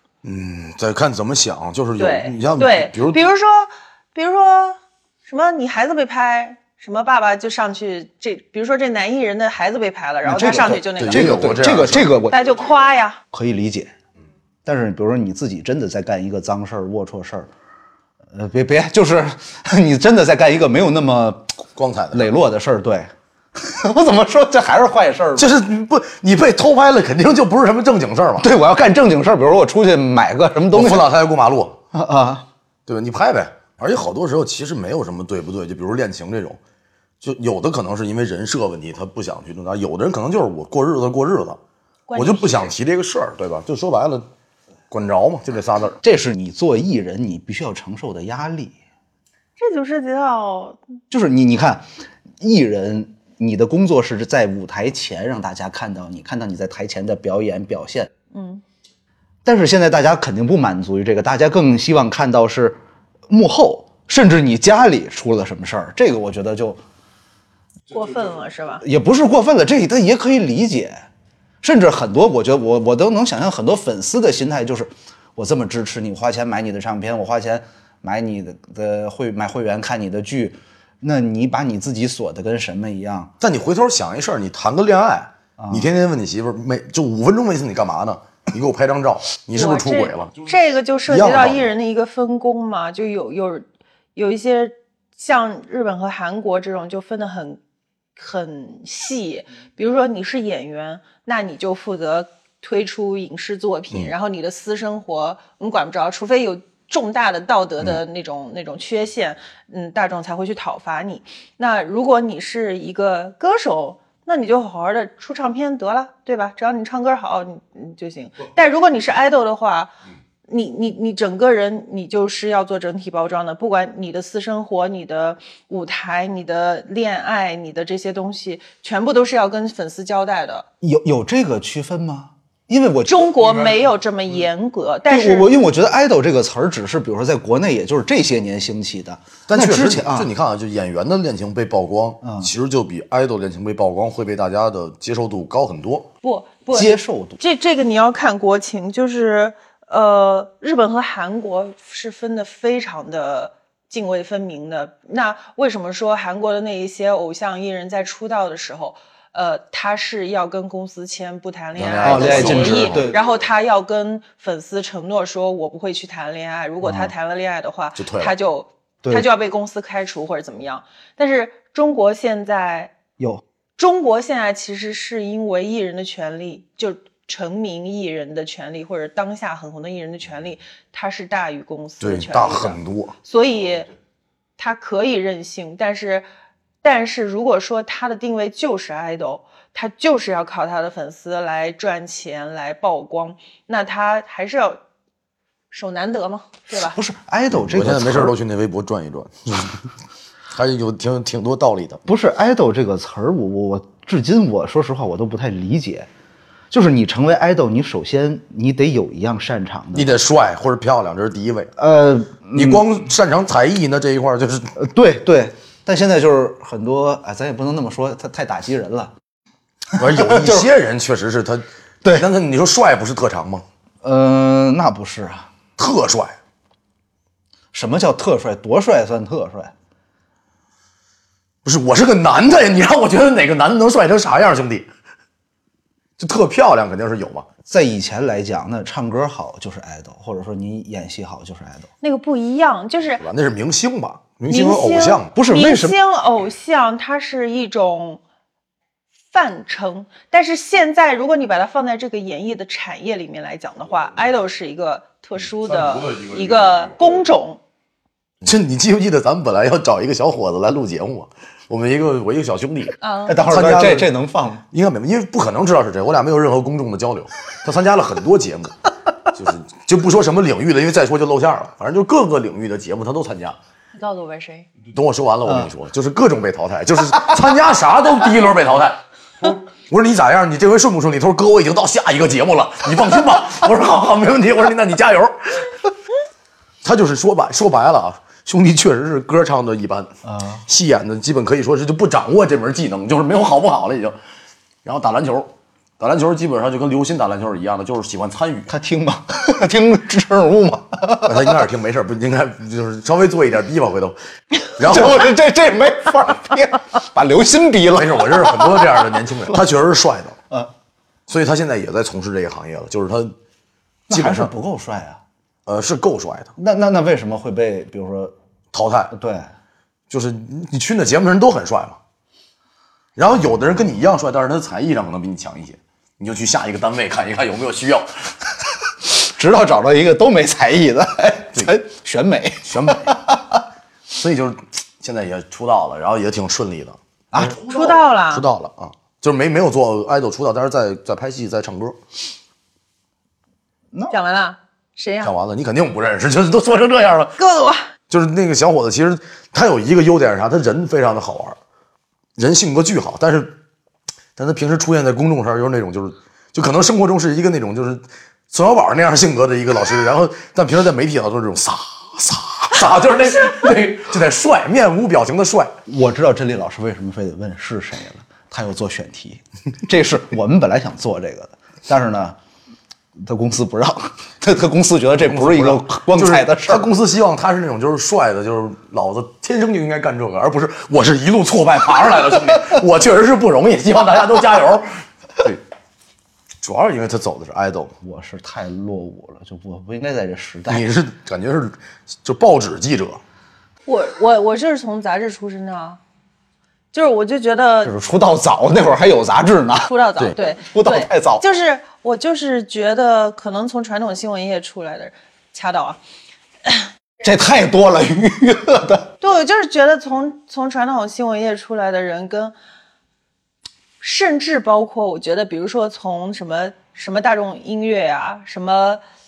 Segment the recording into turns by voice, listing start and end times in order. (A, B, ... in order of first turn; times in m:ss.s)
0:00.2-0:03.2 A
0:02.0-0:11.5 B
0:10.2-0:12.4 C
0:11.0-0:12.1 A
0:12.3-0:13.2 B
0:13.3-0:13.9 C
0:14.6-0:17.5 C
0:18.3-0:21.5 C
0:21.8-0:22.2 A
0:22.1-0:25.5 C
0:25.4-0:28.5 A
0:28.4-0:31.1 C
0:30.7-0:31.8 A
0:31.9-0:32.5 C
0:32.9-0:36.6 A
0:37.2-0:41.6 A
0:42.1-0:42.7 B
0:42.2-0:44.3 A
0:44.9-0:46.0 A
0:46.0-0:48.8 C
0:49.6-0:50.8 B
0:51.1-0:51.9 C
0:52.4-0:58.1 C
0:58.3-0:58.6 B
0:59.4-1:02.8 C
1:03.3-1:06.8 C
1:07.9-1:08.8 B
1:08.8-1:11.0 C
1:11.6-1:23.3 C
1:23.4-1:30.4 A
1:25.6-1:25.9 C
1:29.5-1:37.6 B
1:31.1-1:31.7 A
1:38.2-1:59.9 B
2:00.5-2:10.7 B
2:10.8-2:13.4 C
2:13.1-2:15.5 B
2:15.1-2:20.3 C
2:19.5-2:26.1 A
2:22.2-2:22.5 C
2:26.2-2:52.9 B
2:26.7-2:27.4 C
2:41.8-2:43.1 A
2:42.0-2:43.2 C
2:46.8-2:47.1 C
2:48.0-2:48.3 A
2:53.8-3:03.9 B
3:02.0-3:03.2 A
3:04.6-3:06.3 B
3:06.8-3:14.8 B
3:15.7-3:17.0 B
3:16.8-3:18.4 C
3:17.5-3:19.8 A
3:20.5-3:22.0 A
3:22.0-3:26.1 C
3:26.7-3:30.1 C
3:29.9-3:31.7 A
3:31.8-3:32.9 C
3:32.6-3:34.7 A
3:34.8-3:39.1 C
3:40.0-3:40.7 C
3:40.0-3:43.6 A
3:44.0-3:45.5 C
3:45.8-3:46.4 A
3:47.7-3:49.7 C
3:51.6-3:54.9 A
3:56.2-3:57.5 A
3:57.7-4:01.9 C
4:02.0-4:03.2 B
4:03.2-4:05.3 A
4:04.5-4:08.2 B
4:05.3-4:06.0 C
4:09.3-4:17.6 B
4:15.7-4:16.9 A
4:18.4-4:24.1 A
4:23.0-4:23.4 B
4:23.3-4:24.6 C
4:24.7-4:28.8 A
4:29.3-4:33.6 A
4:34.0-4:34.7 B
4:34.9-4:45.8 A
4:46.8-4:50.1 A
4:50.2-4:50.6 C
4:50.7-4:54.2 A
4:54.8-4:58.7 A
4:58.7-5:01.6 C
5:01.2-5:04.2 A
5:04.8-5:09.5 C
5:04.8-5:05.3 A
5:07.9-5:10.4 A
5:11.3-5:13.4 A
5:14.1-5:15.2 C
5:14.1-5:14.5 A
5:15.7-5:16.5 A
5:16.6-5:18.3 C
5:18.7-5:19.1 A
5:19.1-5:19.5 C
5:20.1-5:22.0 A
5:23.2-5:28.1 A
5:29.0-5:33.6 C
5:32.6-5:33.2 A
5:34.1-5:37.0 A
5:37.3-5:38.0 C
5:37.6-5:38.5 B
5:38.3-5:42.0 A
5:44.1-5:45.3 B
5:45.2-5:47.4 A
5:47.4-5:47.9 B
5:48.1-5:51.6 A
5:52.4-5:53.6 A
5:54.4-6:05.7 A
6:05.9-6:12.4 C
6:13.2-6:16.9 C
6:15.2-6:24.9 A
6:26.6-6:28.0 A
6:28.0-6:30.8 C
6:30.7-6:33.2 A
6:33.9-6:36.0 B
6:36.9-6:37.9 B
6:37.8-6:39.9 C
6:39.9-6:46.0 B
6:40.6-6:41.4 C
6:47.2-6:49.1 C
6:49.2-6:52.5 B
6:54.0-6:59.0 B